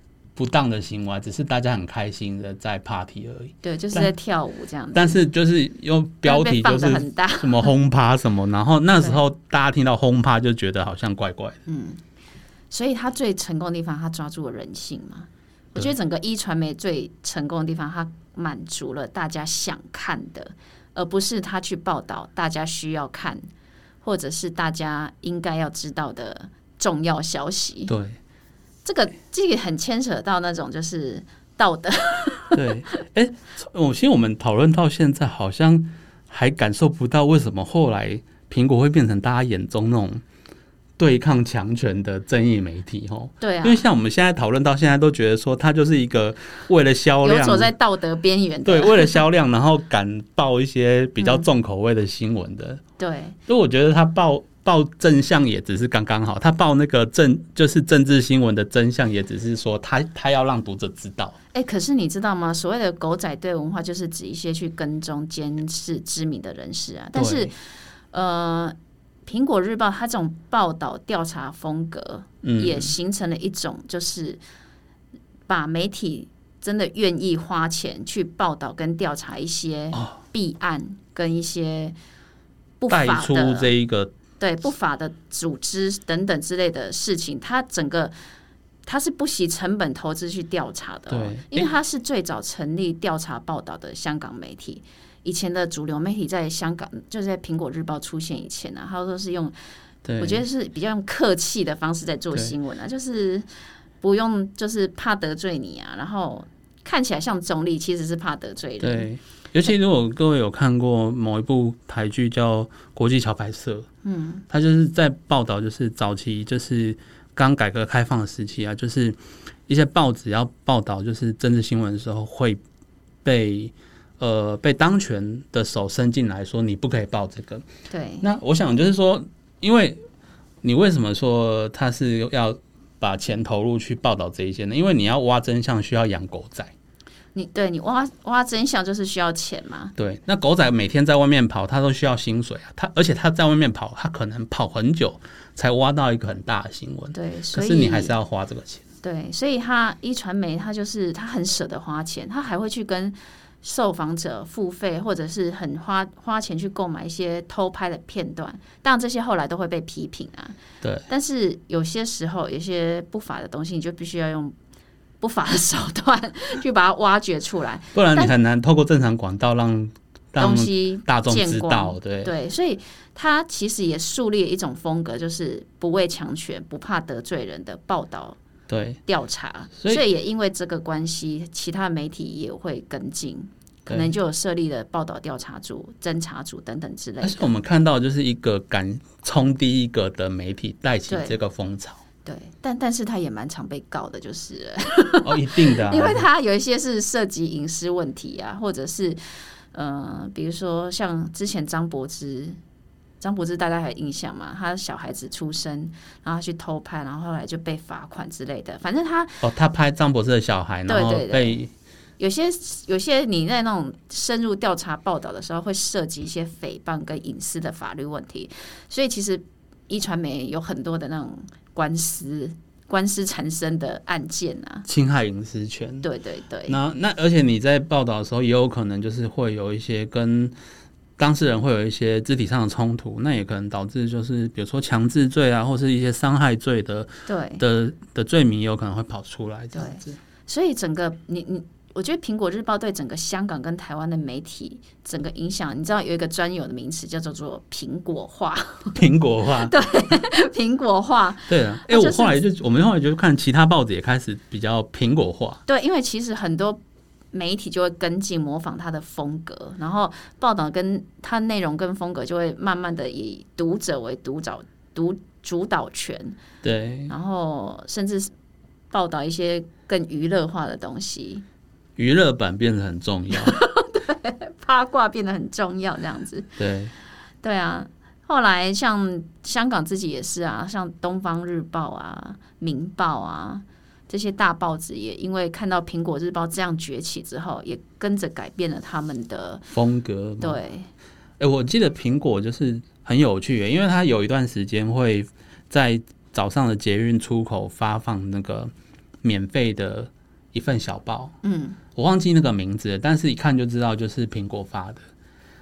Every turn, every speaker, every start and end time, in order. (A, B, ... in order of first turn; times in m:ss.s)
0:00.4-0:04.1 A
0:03.6-0:05.2 B
0:04.9-0:11.6 A
0:06.2-0:07.7 B
0:08.9-0:09.2 B
0:11.7-0:12.0 B
0:12.7-0:23.5 B
0:24.0-0:27.9 B
0:27.9-0:28.2 A
0:28.8-0:32.6 B
0:32.5-0:40.2 A
0:41.0-0:47.7 A
0:43.4-0:43.8 B
0:47.2-0:49.2 B
0:48.6-0:52.8 A
0:51.2-0:51.4 B
0:53.0-0:53.4 B
0:53.5-1:01.3 A
1:01.5-1:07.5 B
1:07.1-1:07.5 A
1:08.1-1:08.7 B
1:09.2-1:14.4 B
1:12.4-1:12.9 A
1:15.5-1:22.0 B
1:19.9-1:20.2 A
1:22.8-1:23.7 B
1:22.9-1:24.1 A
1:24.4-1:28.1 B
1:28.8-1:39.6 B
1:31.1-1:31.7 A
1:40.0-1:40.4 A
1:40.2-1:43.4 B
1:44.0-1:49.1 B
1:48.8-1:53.8 A
1:54.0-1:54.4 B
1:54.5-1:59.2 A
1:59.7-2:02.6 A
2:03.2-2:07.6 A
2:07.9-2:08.2 B
2:08.2-2:10.0 A
2:10.6-2:16.7 A
2:17.3-2:19.9 B
2:20.0-2:28.8 A
2:27.1-2:28.1 B
2:29.0-2:40.5 B
2:41.1-2:44.5 B
2:45.2-2:48.3 B
2:47.9-2:52.3 A
2:50.4-2:58.4 B
2:58.7-2:59.0 A
2:59.1-3:07.5 B
3:07.2-3:12.0 A
3:11.1-3:11.4 B
3:12.2-3:22.6 B
3:15.2-3:16.2 A
3:23.2-3:29.4 B
3:29.4-3:31.7 A
3:30.9-3:31.6 B
3:32.2-3:44.8 B
3:44.9-3:46.1 A
3:46.0-3:46.8 B
3:46.7-3:50.5 A
3:51.2-4:00.2 A
3:57.2-3:57.6 B
3:59.7-4:09.0 B
4:08.9-4:09.8 A
4:09.6-4:12.4 B
4:11.5-4:15.6 A
4:15.7-4:16.8 B
4:17.3-4:26.4 B
4:26.6-4:27.1 A
4:27.1-4:28.3 B
4:28.9-4:31.4 B
4:32.0-4:33.6 A
4:33.3-4:36.5 B
4:36.6-4:36.9 A
4:37.4-4:49.7 B
4:49.7-4:50.6 A
4:50.4-4:50.9 B
4:51.4-4:58.7 A
4:59.2-5:01.3 A
5:01.4-5:01.8 B
5:02.0-5:05.0 A